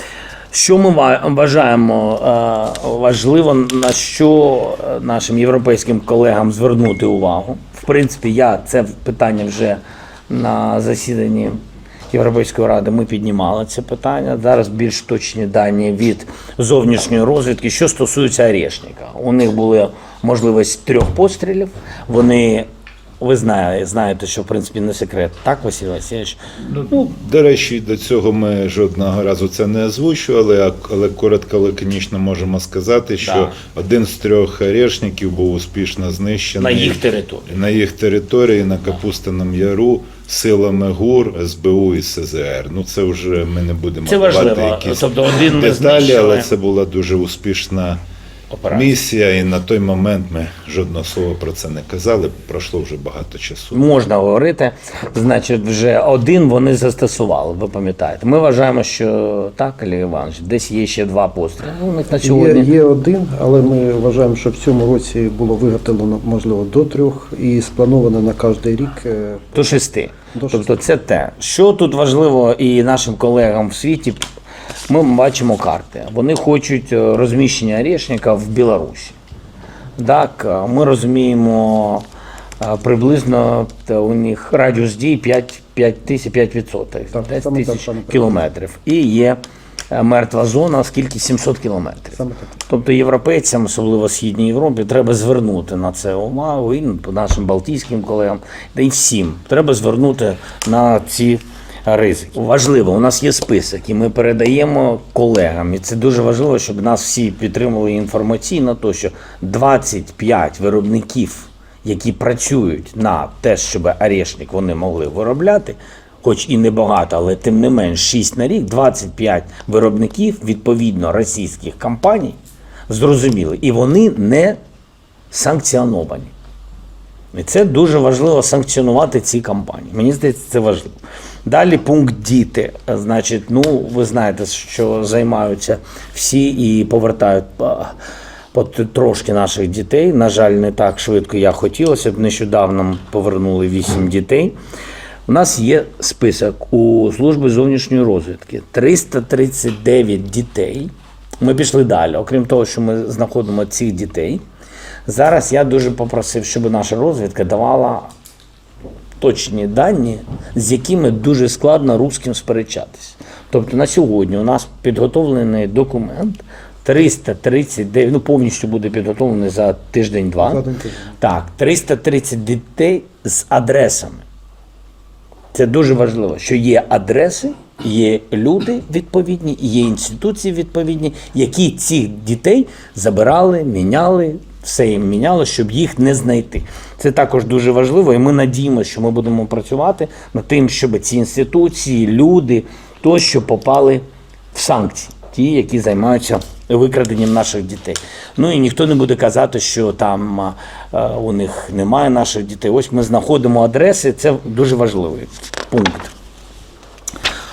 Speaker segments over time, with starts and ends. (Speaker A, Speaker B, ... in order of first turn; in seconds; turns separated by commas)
Speaker A: 0.5-11.6, Speaker A: 12.1-22.7, Speaker A: 23.2-26.4, Speaker B: 26.7-48.0, Speaker A: 33.2-33.5, Speaker A: 36.6-37.5, Speaker A: 44.0-46.5, Speaker A: 48.5-48.9, Speaker B: 48.7-53.8, Speaker A: 53.7-62.7, Speaker C: 62.2-69.4, Speaker A: 69.5-74.2, Speaker C: 70.3-70.7, Speaker A: 74.9-79.2, Speaker A: 80.0-82.0, Speaker A: 82.6-89.4, Speaker C: 87.1-88.3, Speaker A: 89.9-122.4, Speaker C: 92.1-92.5, Speaker A: 122.9-124.6, Speaker A: 125.3-126.3, Speaker A: 127.3-137.9, Speaker A: 138.5-144.5, Speaker A: 145.3-154.4, Speaker A: 155.1-158.1, Speaker A: 159.2-170.6, Speaker C: 170.4-171.1, Speaker A: 171.2-174.2, Speaker A: 175.5-206.1